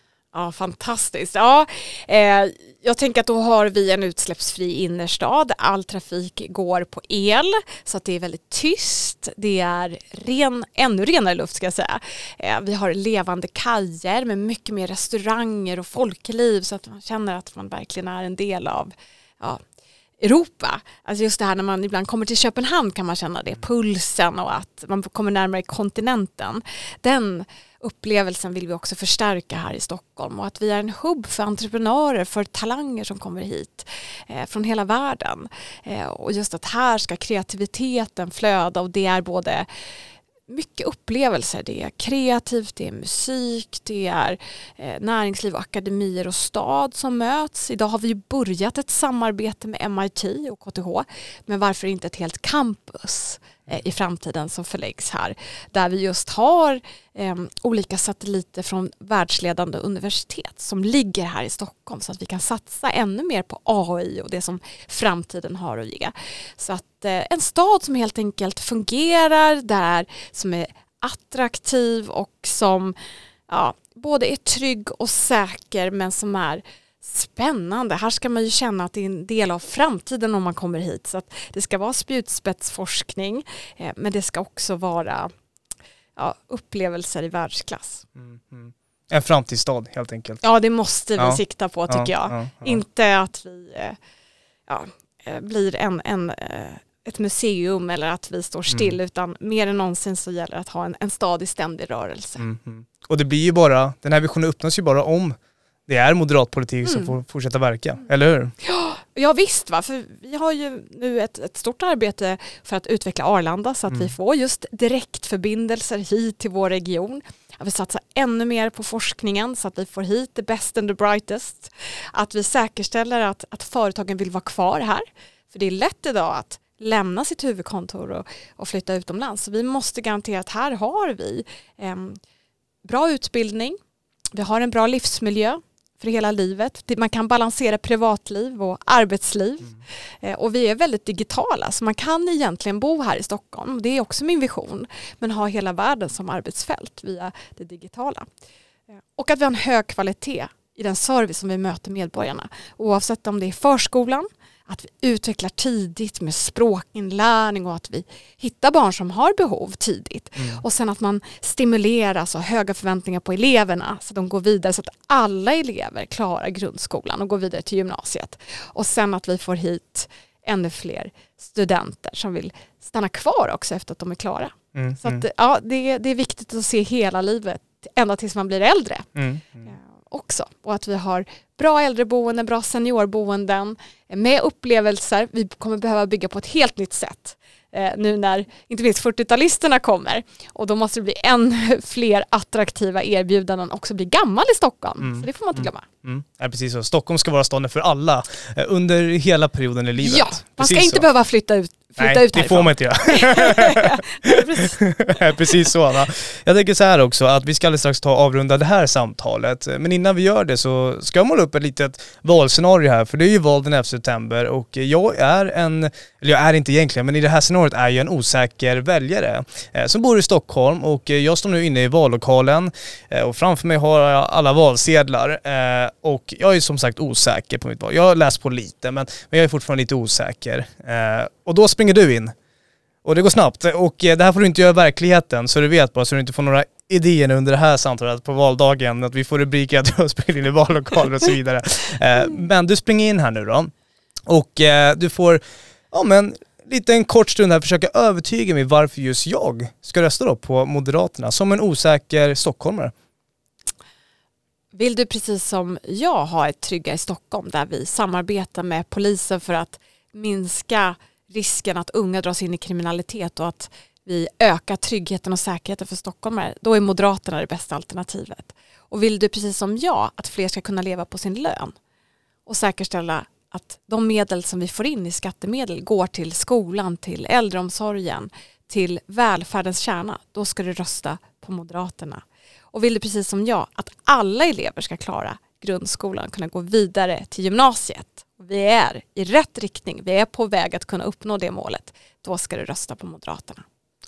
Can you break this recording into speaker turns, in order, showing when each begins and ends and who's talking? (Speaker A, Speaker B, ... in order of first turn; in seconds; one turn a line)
Speaker A: 0.3-19.6
Speaker A: 20.2-39.7
Speaker A: 40.5-73.0
Speaker A: 73.5-85.3
Speaker A: 86.2-88.1
Speaker B: 88.2-90.4
Speaker A: 90.4-94.0
Speaker B: 91.2-92.8
Speaker A: 94.7-102.4
Speaker B: 102.4-108.5
Speaker A: 106.9-107.1
Speaker A: 108.6-132.2
Speaker A: 132.8-133.8
Speaker A: 134.3-148.3
Speaker A: 149.1-179.1
Speaker B: 174.8-175.2
Speaker B: 179.2-179.7
Speaker A: 179.7-195.9
Speaker B: 195.0-201.0
Speaker A: 200.0-204.8
Speaker B: 202.0-232.3
Speaker A: 205.4-205.7
Speaker B: 233.0-243.7
Speaker B: 244.3-245.4
Speaker B: 245.9-252.9
Speaker A: 254.7-271.8
Speaker A: 272.5-293.6